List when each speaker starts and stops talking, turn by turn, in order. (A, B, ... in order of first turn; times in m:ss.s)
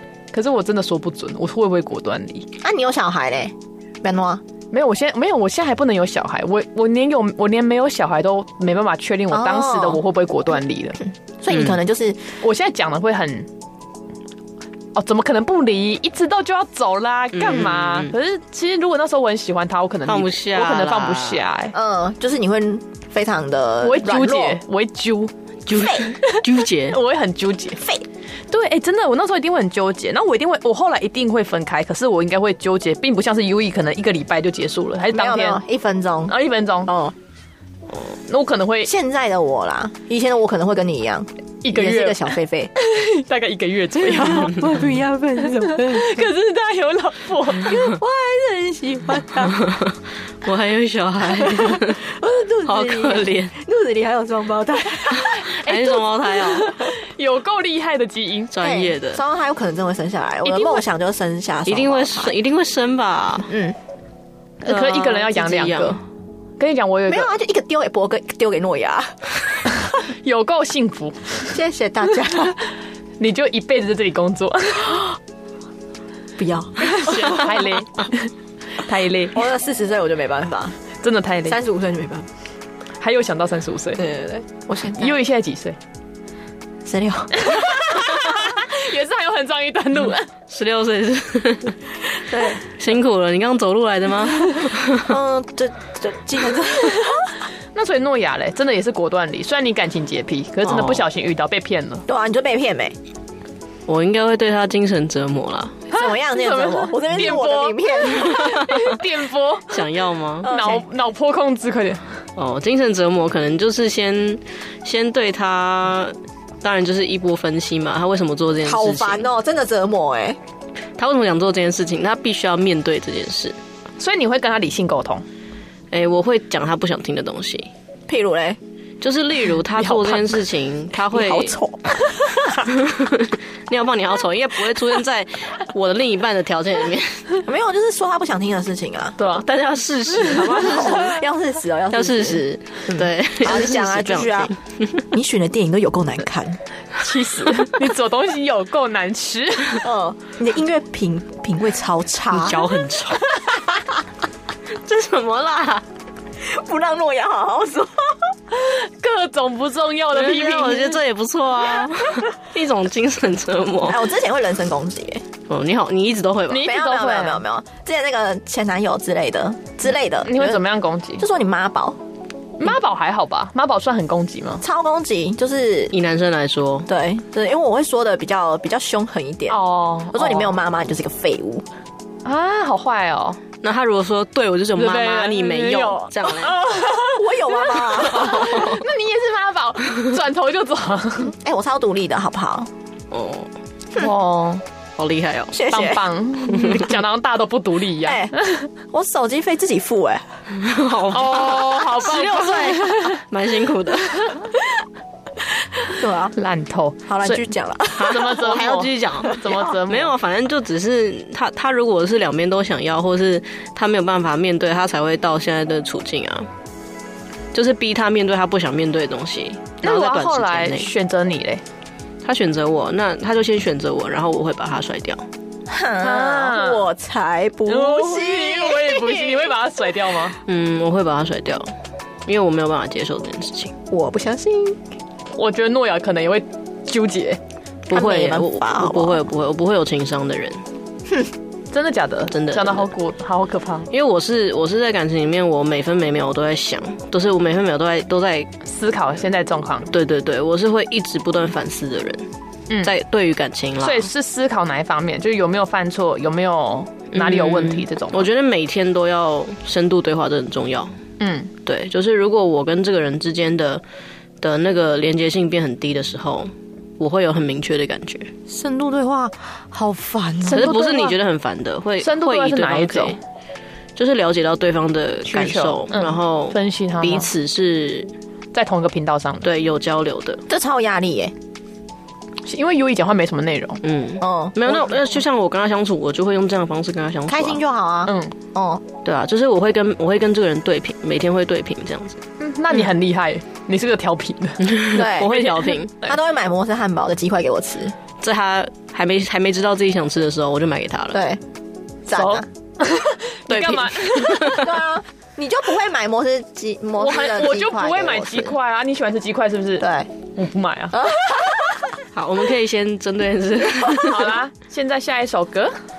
0:00.3-0:02.5 A
0:02.6-0:04.4 B
0:04.7-0:11.0 A
0:09.3-0:10.0 B
0:11.0-0:12.2 B
0:11.5-0:11.8 C
0:12.4-0:13.5 A
0:15.0-0:21.8 A
0:17.4-0:18.1 C
0:20.1-0:21.4 C
0:21.7-0:24.6 B
0:23.8-0:25.3 A
0:25.7-0:27.0 C
0:25.7-0:26.1 B
0:26.0-0:27.8 A
0:27.8-0:28.0 B
0:28.5-0:35.6 A
0:35.1-0:37.2 B
0:36.3-0:36.9 A
0:38.3-0:38.9 A
0:38.8-0:42.7 B
0:41.6-0:44.7 A
0:44.0-0:46.2 B
0:45.4-0:47.8 A
0:47.6-0:49.6 B
0:49.5-0:52.0 C
0:51.4-0:55.4 B
0:52.6-0:53.6 C
0:55.1-0:58.5 A
0:55.5-0:56.9 C
0:58.5-0:59.2 C
0:58.6-1:02.3 B
1:00.4-1:00.8 A
1:01.7-1:03.5 C
1:03.5-1:03.8 B
1:04.6-1:06.0 A
1:04.7-1:06.0 C
1:06.6-1:07.3 A
1:07.1-1:09.6 B
1:09.8-1:11.5 A
1:11.5-1:12.6 B
1:13.2-1:15.1 A
1:16.4-1:17.7 B
1:16.8-1:19.4 A
1:19.3-1:20.8 B
1:21.0-1:21.6 A
1:21.5-1:22.3 B
1:23.0-1:24.0 A
1:24.0-1:25.2 B
1:25.0-1:25.8 A
1:26.8-1:28.1 B
1:27.4-1:30.3 A
1:30.5-1:31.8 C
1:32.3-1:32.6 B
1:32.7-1:35.1 C
1:35.0-1:37.3 B
1:37.1-1:42.0 A
1:40.6-1:41.1 C
1:42.1-1:43.0 B
1:43.9-1:45.8 C
1:45.9-1:48.5 B
1:45.9-1:49.8 A
1:48.5-1:48.8 C
1:49.7-1:50.5 C
1:50.4-1:50.8 B
1:50.4-1:52.0 A
1:52.4-1:59.3 C
1:58.6-2:00.4 B
2:01.0-2:03.6 C
2:04.0-2:05.2 A
2:05.9-2:07.7 C
2:08.1-2:08.6 B
2:09.0-2:11.6 C
2:09.8-2:10.4 A
2:11.1-2:11.9 B
2:12.7-2:17.2 C
2:17.4-2:19.2 B
2:19.2-2:19.5 A
2:19.4-2:21.2 C
2:20.2-2:24.5 B
2:21.9-2:25.0 C
2:25.1-2:26.6 B
2:27.0-2:29.8 A
2:29.8-2:32.7 B
2:32.3-2:33.3 C
2:33.5-2:33.8 B
2:34.8-2:35.8 C
2:36.4-2:38.3 B
2:38.5-2:41.0 A
2:40.1-2:44.0 C
2:43.9-2:45.2 B
2:45.5-2:46.7 C
2:46.5-2:47.4 A
2:46.6-2:50.6 B
2:50.2-2:51.2 A
2:51.2-2:52.0 B
2:52.6-2:54.6 A
2:54.6-2:55.9 B
2:55.9-2:56.9 C
2:56.9-3:01.7 B
2:59.5-3:00.5 A
3:02.2-3:03.4 A
3:03.6-3:06.6 C
3:04.8-3:11.3 A
3:06.7-3:08.8 B
3:08.3-3:08.8 C
3:11.3-3:12.7 B
3:13.1-3:13.5 C
3:14.0-3:14.6 A
3:15.0-3:15.6 C
3:15.5-3:16.1 B
3:15.6-3:18.7 A
3:16.6-3:16.8 C
3:18.0-3:18.4 B
3:18.9-3:20.4 B
3:20.5-3:24.5 C
3:21.1-3:23.2 A
3:26.0-3:26.3 B
3:26.4-3:30.2 A
3:27.1-3:28.5 B
3:28.0-3:36.5 C
3:37.5-3:40.9 C
3:39.8-3:41.6 A
3:42.2-3:45.2 C
3:45.7-3:49.6 B
3:46.0-3:46.8 A
3:47.7-3:50.4 A
3:50.5-3:51.7 C
3:52.3-3:53.7 C
3:53.9-3:54.8 B
3:55.4-3:57.4 A
3:57.9-4:00.6 C
3:57.9-3:59.2 B
4:01.7-4:03.9 A
4:02.3-4:02.9 C
4:03.9-4:08.5 C
4:08.6-4:09.9 A
4:09.9-4:12.3 C
4:12.8-4:14.1 C
4:13.8-4:18.3 A
4:17.1-4:20.9 C
4:21.2-4:21.5 A
4:21.7-4:23.8 C
4:24.4-4:28.3 C
4:28.5-4:30.7 B
4:30.5-4:31.2 A
4:30.5-4:33.2 C
4:32.0-4:33.2 A
4:34.0-4:38.1 C
4:35.3-4:37.3 A
4:38.5-4:39.5 A
4:39.4-4:40.4 C
4:40.5-4:41.3 B
4:42.5-4:43.8 A
4:43.8-4:47.6 C
4:44.2-4:44.8 B
4:47.3-4:48.8 B
4:48.1-4:48.4 A
4:49.0-4:52.2 C
4:52.4-4:56.2 A
4:54.7-4:55.9 C
4:54.9-4:55.5 B
4:56.0-4:58.0 B
4:58.2-5:01.2 C
5:01.1-5:01.4 B
5:02.1-5:02.4 B
5:02.1-5:04.7 A
5:03.5-5:04.7 C
5:04.5-5:08.6 B
5:07.0-5:11.1 A
5:09.8-5:10.1 B
5:10.9-5:11.9 B
5:12.1-5:14.4 C
5:13.9-5:15.7 A